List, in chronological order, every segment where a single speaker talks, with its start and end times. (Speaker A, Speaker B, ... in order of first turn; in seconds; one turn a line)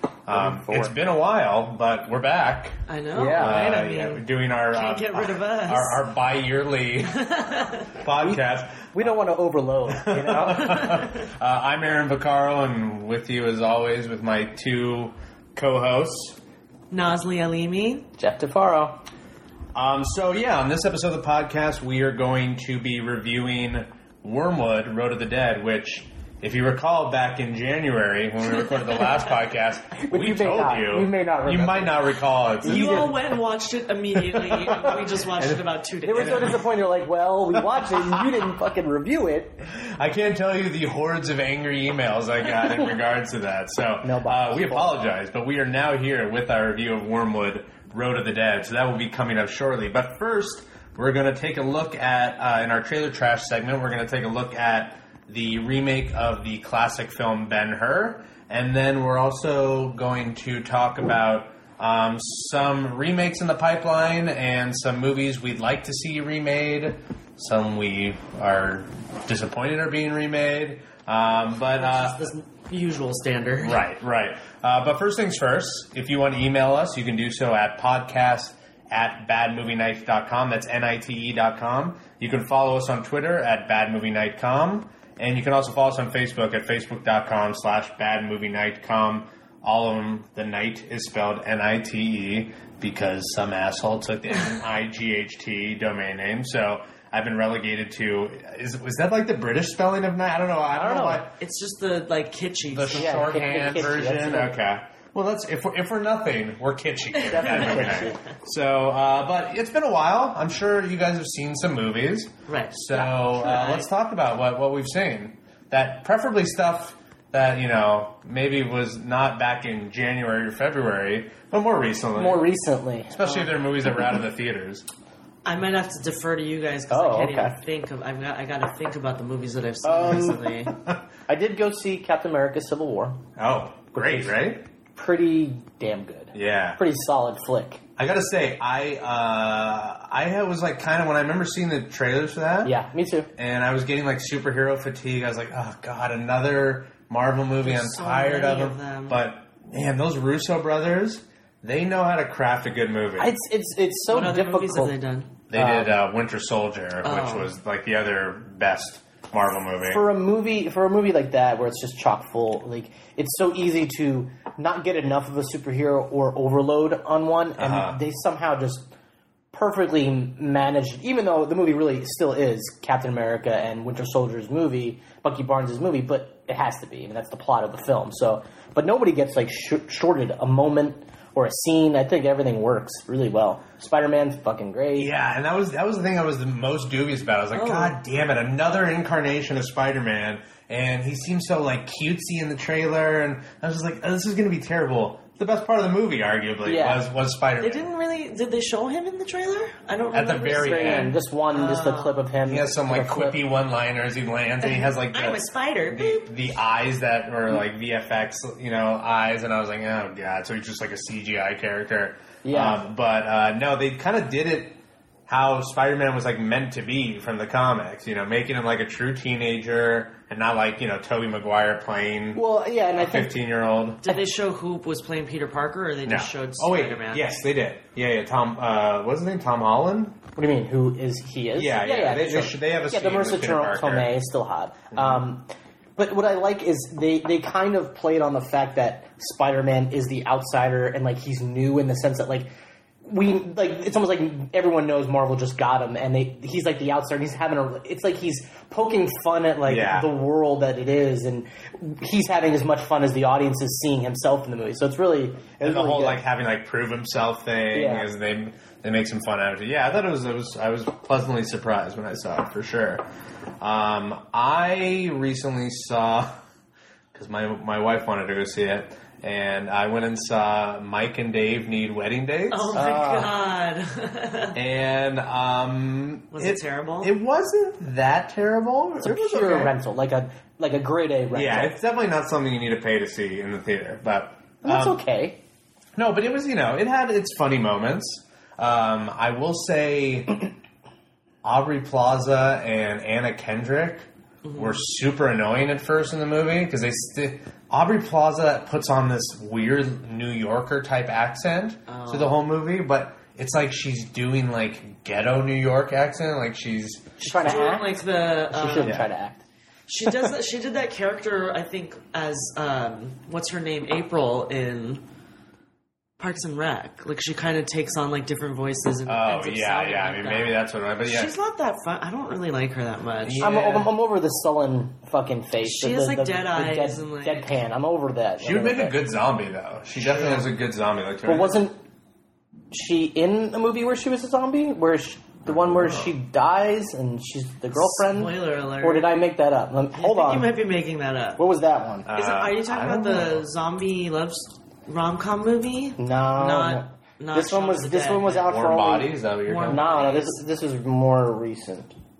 Speaker A: 0.3-0.9
Speaker B: 0.3-7.2
Speaker C: 2.9-6.0
Speaker A: 3.1-3.6
Speaker C: 7.1-8.0
Speaker B: 7.9-9.2
Speaker A: 8.9-11.0
Speaker B: 9.9-16.4
Speaker C: 10.6-11.2
Speaker C: 16.9-18.1
Speaker A: 18.2-19.0
Speaker B: 19.7-33.2
Speaker C: 28.8-29.3
Speaker A: 30.0-33.2
Speaker C: 32.6-36.6
Speaker B: 34.2-36.6
Speaker A: 36.0-39.6
Speaker B: 39.7-72.2
Speaker A: 44.0-45.0
Speaker C: 71.8-73.8
Speaker B: 73.6-101.3
Speaker A: 100.7-101.3
Speaker C: 101.4-104.0
Speaker B: 102.7-122.5
Speaker A: 102.9-104.5
Speaker C: 107.2-108.1
Speaker A: 107.2-108.2
Speaker C: 112.5-112.8
Speaker A: 112.9-113.8
Speaker C: 113.3-113.8
Speaker A: 122.2-123.5
Speaker B: 123.1-124.8
Speaker C: 125.5-130.7
Speaker A: 126.9-127.6
Speaker A: 129.8-130.4
Speaker B: 130.1-131.0
Speaker A: 131.3-133.2
Speaker B: 133.4-134.6
Speaker A: 133.9-134.4
Speaker A: 134.9-137.8
Speaker B: 136.3-136.8
Speaker B: 138.0-142.8
Speaker A: 142.6-143.3
Speaker B: 143.4-153.3
Speaker C: 147.6-149.2
Speaker A: 153.2-154.9
Speaker C: 154.1-155.3
Speaker B: 155.5-160.1
Speaker A: 155.5-156.0
Speaker C: 157.0-157.5
Speaker A: 159.8-168.9
Speaker B: 167.6-168.0
Speaker A: 169.5-185.1
Speaker B: 185.0-197.9
Speaker C: 187.5-188.0
Speaker A: 196.7-197.1
Speaker C: 197.6-202.3
Speaker B: 200.1-201.2
Speaker A: 200.5-203.4
Speaker B: 202.4-222.4
Speaker C: 204.6-206.3
Speaker A: 212.4-212.8
Speaker A: 222.3-223.3
Speaker B: 222.9-224.0
Speaker C: 224.0-227.4
Speaker B: 226.1-230.2
Speaker A: 230.4-242.5
Speaker B: 231.6-234.2
Speaker B: 234.9-235.3
Speaker A: 243.1-256.2
Speaker B: 249.7-250.1
Speaker B: 255.6-263.1
Speaker A: 257.7-258.1
Speaker B: 263.6-266.3
Speaker B: 267.1-272.8
Speaker C: 272.5-274.6
Speaker A: 272.8-273.3
Speaker B: 274.5-279.8
Speaker C: 276.3-277.1
Speaker A: 279.0-281.8
Speaker B: 281.3-285.0
Speaker A: 284.6-285.4
Speaker B: 286.0-290.5
Speaker B: 291.4-307.6
Speaker C: 294.4-294.7
Speaker C: 301.9-302.4
Speaker C: 307.2-309.0
Speaker A: 307.2-309.4
Speaker B: 308.8-309.1
Speaker C: 309.9-315.0
Speaker C: 316.2-323.6
Speaker B: 319.1-321.3
Speaker B: 323.2-323.9
Speaker A: 323.4-329.0
Speaker C: 325.6-327.5
Speaker B: 328.4-331.6
Speaker C: 330.0-330.5
Speaker A: 331.2-331.8
Speaker A: 332.7-340.5
Speaker B: 335.5-336.1
Speaker C: 337.7-339.1
Speaker C: 339.9-341.4
Speaker A: 341.4-342.1
Speaker B: 342.1-343.4
Speaker C: 342.1-348.5
Speaker A: 346.0-351.9
Speaker B: 348.3-349.9
Speaker C: 349.5-350.4